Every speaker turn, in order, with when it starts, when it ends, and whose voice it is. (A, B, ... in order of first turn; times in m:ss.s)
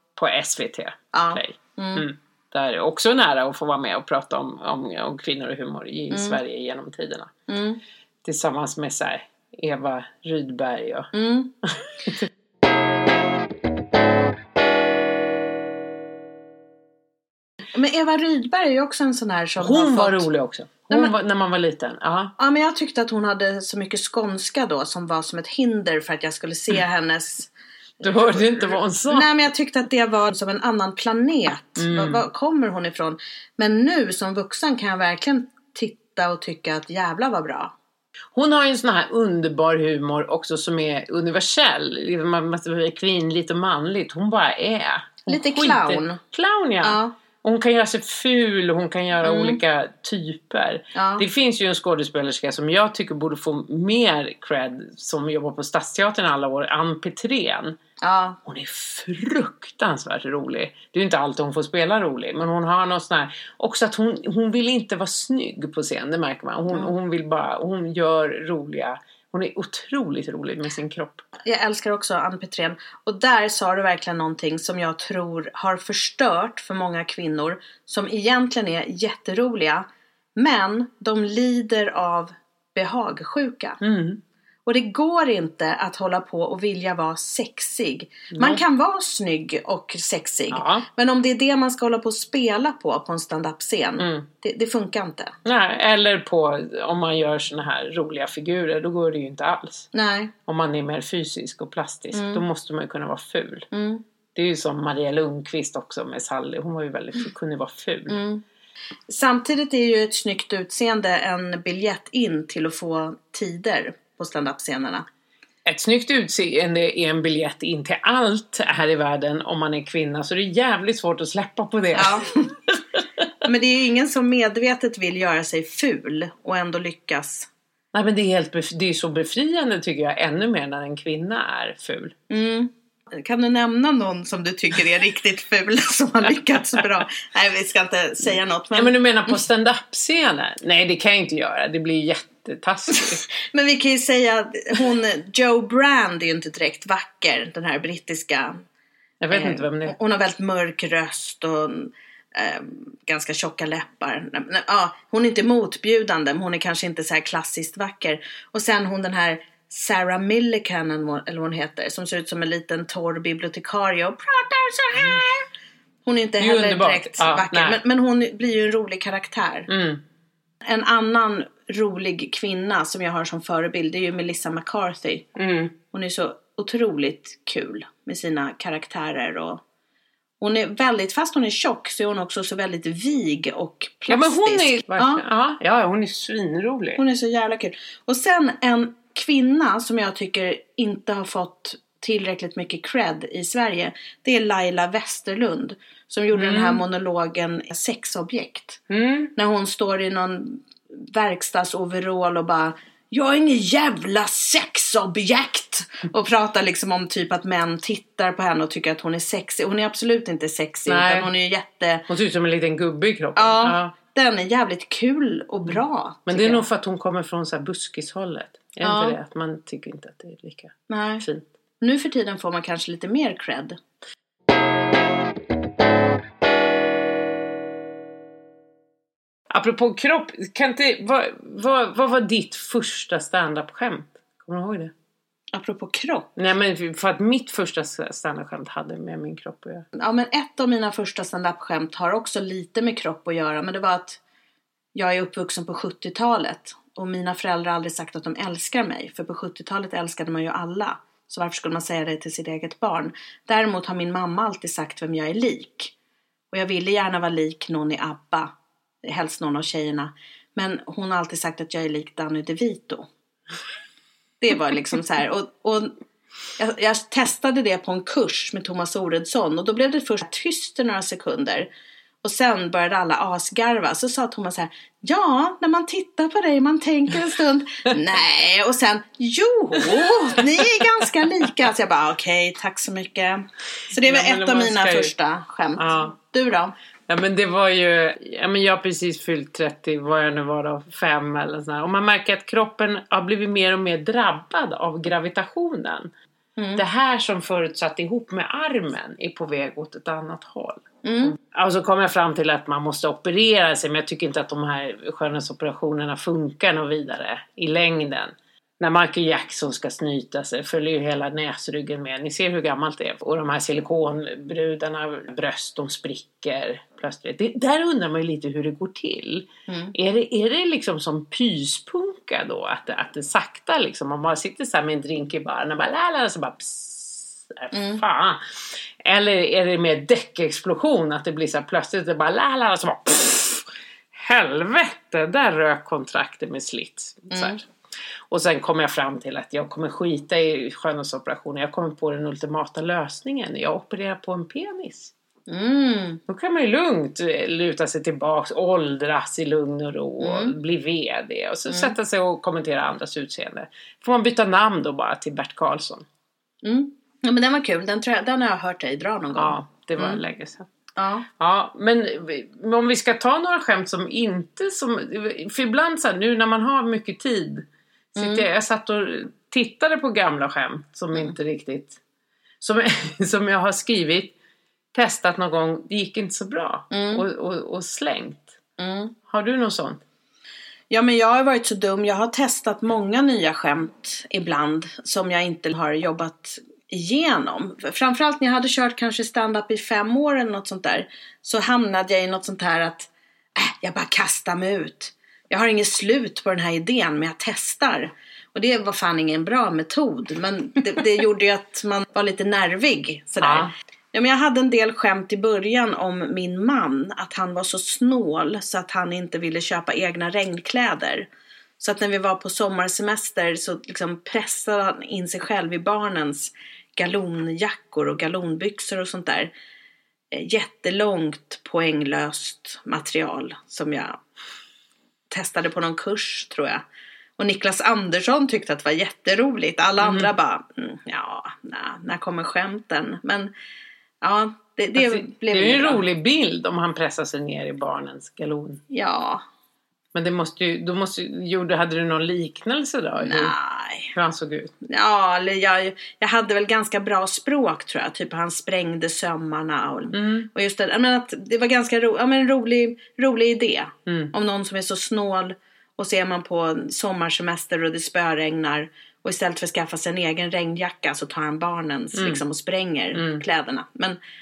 0:00.2-0:07.3 A
0:01.1-0:02.0 B
0:06.1-0:06.4 B
0:07.5-0:07.8 B
0:08.2-0:11.1 A
0:11.1-0:11.5 B
0:11.7-0:12.3 A
0:17.7-0:20.2 B
0:19.6-0:22.3 A
0:22.4-0:37.7 B
0:28.0-0:29.3 A
0:31.8-0:32.2 A
0:38.3-0:57.8 A
0:45.3-0:46.2 B
0:46.8-0:47.1 B
0:49.2-0:49.6 B
0:50.9-0:51.2 B
0:58.0-0:58.4 B
0:58.4-1:11.2 A
1:11.4-1:23.8 B
1:23.8-1:24.2 A
1:24.6-1:35.4 B
1:28.3-1:28.6 A
1:30.5-1:30.9 A
1:34.0-1:34.3 A
1:35.4-1:39.9 A
1:39.9-1:40.3 B
1:40.5-1:43.7 A
1:42.1-1:42.4 B
1:43.7-1:44.0 B
1:44.3-1:48.2 A
1:48.1-1:48.4 B
1:49.1-1:55.0 B
1:55.6-2:03.2 A
2:01.9-2:02.5 B
2:03.4-2:07.5 B
2:07.9-2:12.1 A
2:12.3-2:19.4 B
2:18.7-2:23.2 A
2:22.9-2:28.6 B
2:29.2-2:29.9 A
2:29.3-2:45.4 B
2:44.9-2:45.2 A
2:46.0-2:49.7 B
2:46.4-2:47.8 A
2:49.7-2:50.0 A
2:50.6-2:55.3 B
2:55.4-2:55.8 A
2:55.9-2:59.6 B
3:00.4-3:05.2 B
3:04.1-3:07.0 A
3:07.0-3:18.8 B
3:16.3-3:16.8 A
3:18.9-3:19.3 A
3:19.4-3:32.1 B
3:30.9-3:31.3 A
3:32.1-3:33.9 A
3:33.4-3:36.6 B
3:35.6-3:41.4 A
3:38.8-3:39.2 B
3:40.9-3:41.2 B
3:41.8-3:43.8 B
3:49.5-3:54.9 A
3:55.5-3:56.3 B
3:56.4-3:59.8 A
4:00.0-4:04.2 B
4:04.9-4:15.9 B
4:16.5-4:23.0 B
4:24.4-4:25.9 B
4:26.6-4:31.7 B
4:32.2-4:46.7 B
4:39.8-4:40.8 A
4:43.9-4:45.1 A
4:45.8-4:46.1 A
4:47.1-4:56.1 A
4:56.6-4:56.8 B
4:56.8-5:37.7 A
5:01.0-5:01.4 B
5:19.7-5:19.9 B
5:27.7-5:28.0 B
5:37.3-5:37.6 B
5:38.3-5:45.1 A
5:45.5-5:46.2 B
5:46.3-5:56.0 A
5:50.2-5:50.5 B
5:51.7-5:51.9 B
5:56.6-6:00.2 B
5:59.3-6:00.7 A
6:01.0-6:01.3 B
6:01.4-6:12.0 A
6:08.2-6:08.5 B
6:12.6-6:14.3 A
6:14.9-6:18.5 A
6:16.9-6:17.2 B
6:18.8-6:19.1 B
6:19.3-6:20.0 A
6:20.9-6:51.3 B
6:43.4-6:43.7 A
6:51.8-6:59.5 B
7:00.3-7:04.2 B
7:05.3-7:06.8 B
7:07.4-7:13.5 B
7:10.0-7:10.3 A
7:14.2-7:16.0 B
7:15.0-7:18.8 A
7:18.9-7:19.4 B
7:20.1-7:23.5 A
7:23.2-7:24.1 B
7:24.1-7:24.7 A
7:24.8-7:44.2 B
7:30.1-7:30.5 A
7:34.1-7:34.3 A
7:42.1-7:42.4 A
7:43.1-7:43.4 A